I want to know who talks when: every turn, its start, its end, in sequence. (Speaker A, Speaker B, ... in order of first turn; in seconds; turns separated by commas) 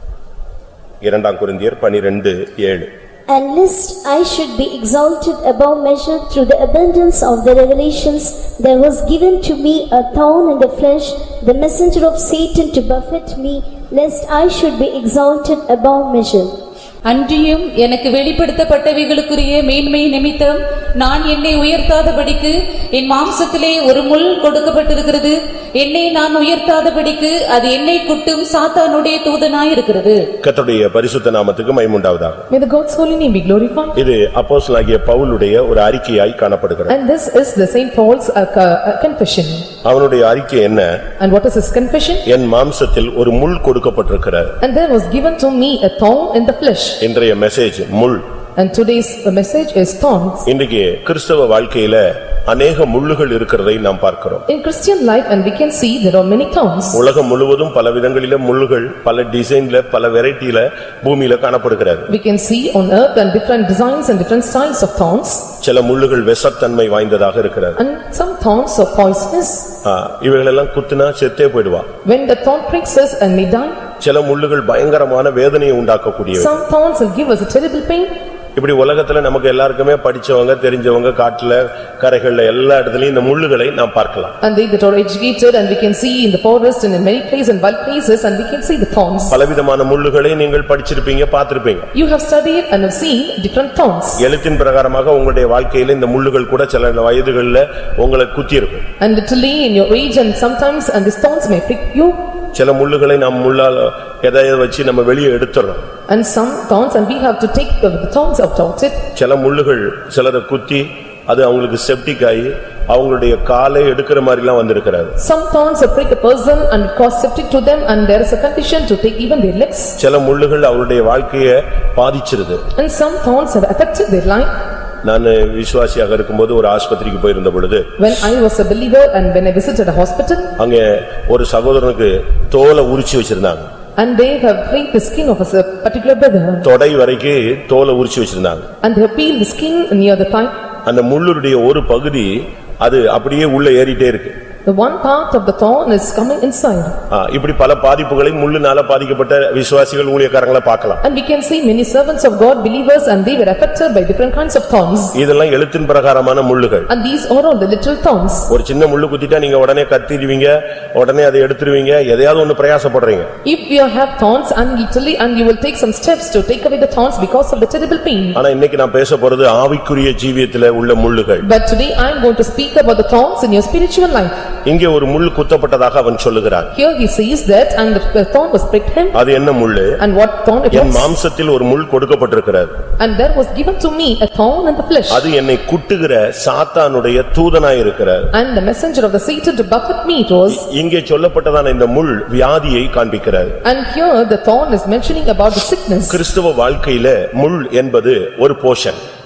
Speaker A: 1.0-2.9, Speaker B: 3.3-16.5, Speaker C: 17.1-30.2, Speaker A: 30.4-32.4, Speaker D: 32.5-34.0, Speaker A: 34.0-37.0, Speaker D: 36.9-39.7, Speaker A: 39.8-41.0, Speaker D: 41.2-42.2, Speaker A: 42.2-44.5, Speaker D: 44.6-47.0, Speaker A: 47.0-48.2, Speaker D: 48.5-50.4, Speaker A: 50.5-54.4, Speaker D: 54.5-57.0, Speaker A: 56.9-62.1, Speaker D: 62.1-65.5, Speaker A: 65.6-67.8, Speaker D: 67.8-69.7, Speaker A: 69.8-71.9, Speaker D: 72.0-73.8, Speaker A: 74.0-76.5, Speaker D: 76.3-78.1, Speaker A: 78.5-84.3, Speaker D: 84.4-89.3, Speaker A: 89.3-91.9, Speaker D: 91.9-94.2, Speaker A: 94.2-98.8, Speaker D: 99.0-102.2, Speaker A: 102.5-105.8, Speaker D: 106.1-109.0, Speaker A: 109.1-115.2, Speaker D: 115.2-120.0, Speaker A: 120.0-122.6, Speaker D: 122.8-124.5, Speaker A: 125.0-127.9, Speaker D: 128.0-130.5, Speaker A: 130.6-133.7, Speaker D: 134.0-136.7, Speaker A: 136.6-138.7, Speaker D: 138.8-140.5, Speaker A: 140.8-144.3, Speaker D: 144.7-146.9, Speaker A: 147.1-151.0, Speaker D: 151.0-155.2, Speaker A: 155.1-156.9, Speaker D: 156.9-158.5, Speaker A: 158.5-163.3, Speaker D: 163.4-168.4, Speaker A: 168.3-171.4, Speaker D: 171.4-174.3, Speaker A: 174.7-176.7, Speaker D: 176.7-179.2, Speaker A: 179.1-180.0, Speaker D: 180.0-181.1, Speaker A: 180.7-182.8, Speaker D: 183.0-185.2, Speaker A: 185.1-188.3, Speaker D: 188.3-190.6, Speaker A: 190.5-193.6, Speaker D: 193.6-196.2, Speaker A: 196.1-199.0